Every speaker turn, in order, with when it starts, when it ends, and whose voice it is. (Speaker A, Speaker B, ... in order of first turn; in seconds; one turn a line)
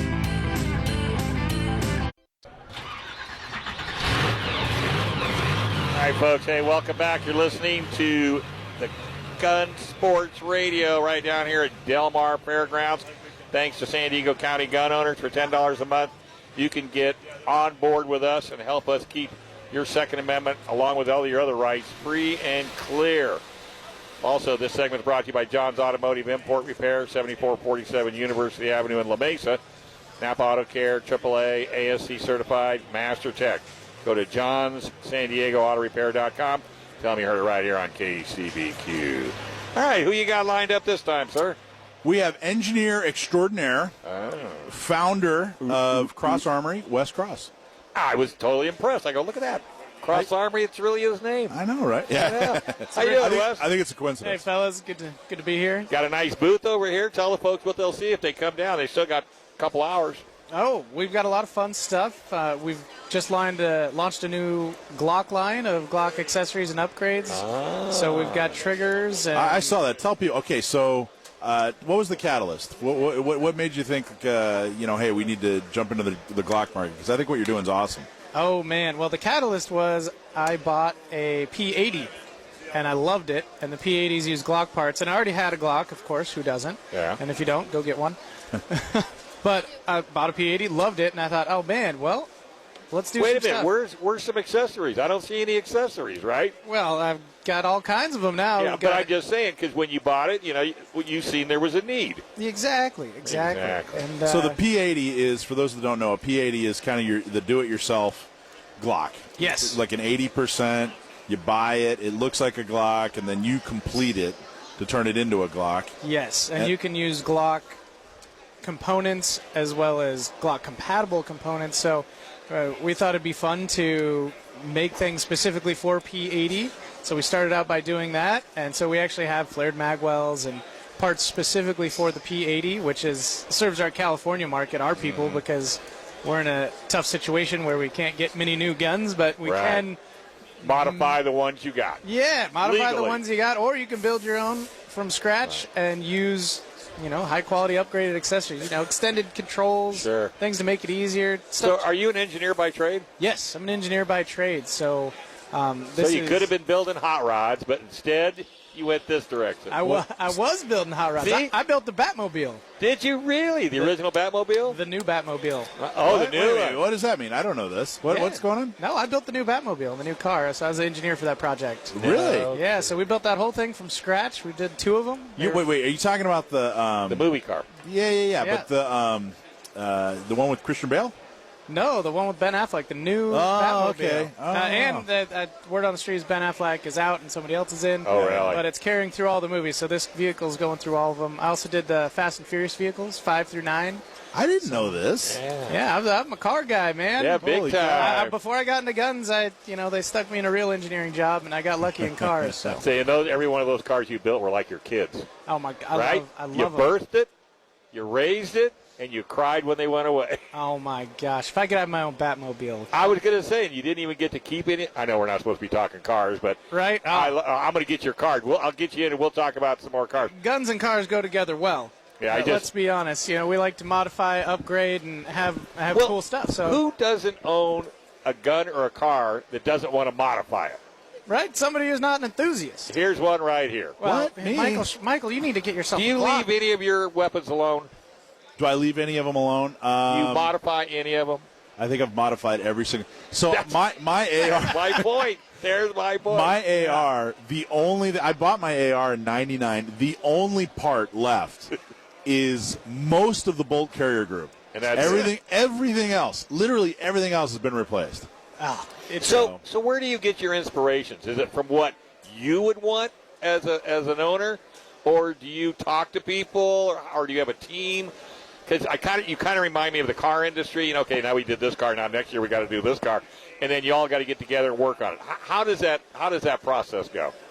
Speaker A: 5.9-23.4
Speaker A: 24.2-29.6
Speaker A: 30.2-41.6
Speaker B: 42.0-43.9
Speaker A: 44.0-44.7
Speaker B: 44.7-47.5
Speaker A: 45.6-46.4
Speaker A: 47.9-53.7
Speaker B: 51.5-54.4
Speaker C: 54.2-55.9
Speaker A: 55.9-60.2
Speaker C: 60.5-69.7
Speaker A: 67.3-68.6
Speaker B: 69.3-78.1
Speaker C: 78.3-82.1
Speaker C: 82.7-88.2
Speaker A: 86.9-87.2
Speaker C: 88.7-92.3
Speaker C: 92.9-93.7
Speaker A: 93.2-96.5
Speaker C: 96.6-99.1
Speaker A: 98.6-102.2
Speaker C: 102.3-104.6
Speaker A: 103.2-104.0
Speaker B: 104.2-115.9
Speaker C: 109.4-109.8
Speaker C: 116.0-117.8
Speaker C: 118.6-140.0
Speaker A: 135.0-135.4
Speaker A: 139.4-139.8
Speaker C: 140.6-141.2
Speaker A: 140.6-142.0
Speaker C: 142.0-151.8
Speaker A: 142.6-143.2
Speaker A: 149.9-150.3
Speaker A: 151.6-153.1
Speaker C: 153.2-156.5
Speaker A: 156.0-160.0
Speaker C: 159.7-162.6
Speaker A: 161.2-161.5
Speaker A: 162.8-164.8
Speaker C: 164.6-165.7
Speaker A: 165.8-166.8
Speaker B: 166.0-168.8
Speaker C: 168.0-175.6
Speaker B: 171.9-172.5
Speaker A: 172.0-172.9
Speaker B: 175.4-177.3
Speaker A: 177.1-177.7
Speaker B: 177.8-181.1
Speaker C: 178.4-178.7
Speaker C: 181.7-194.0
Speaker B: 183.3-185.1
Speaker A: 188.0-188.6
Speaker B: 188.1-188.6
Speaker B: 194.3-195.4
Speaker C: 194.7-194.9
Speaker A: 195.2-195.8
Speaker C: 195.7-202.8
Speaker A: 197.2-198.3
Speaker B: 197.4-198.2
Speaker B: 202.0-202.3
Speaker A: 202.7-205.3
Speaker C: 205.5-206.9
Speaker A: 205.9-207.3
Speaker A: 207.9-210.4
Speaker C: 210.5-212.9
Speaker A: 212.9-220.3
Speaker C: 216.7-217.4
Speaker C: 220.3-226.8
Speaker A: 222.2-222.7
Speaker A: 225.9-230.8
Speaker C: 231.3-232.9
Speaker A: 232.9-234.0
Speaker C: 234.0-236.5
Speaker B: 234.0-234.9
Speaker A: 235.9-237.9
Speaker B: 238.6-240.5
Speaker A: 240.1-241.4
Speaker B: 241.8-245.0
Speaker A: 243.5-243.8
Speaker A: 244.4-246.6
Speaker B: 246.3-251.7
Speaker B: 252.2-258.3
Speaker A: 254.7-255.3
Speaker C: 258.6-259.4
Speaker A: 259.2-268.1
Speaker B: 259.2-259.6
Speaker A: 268.7-277.3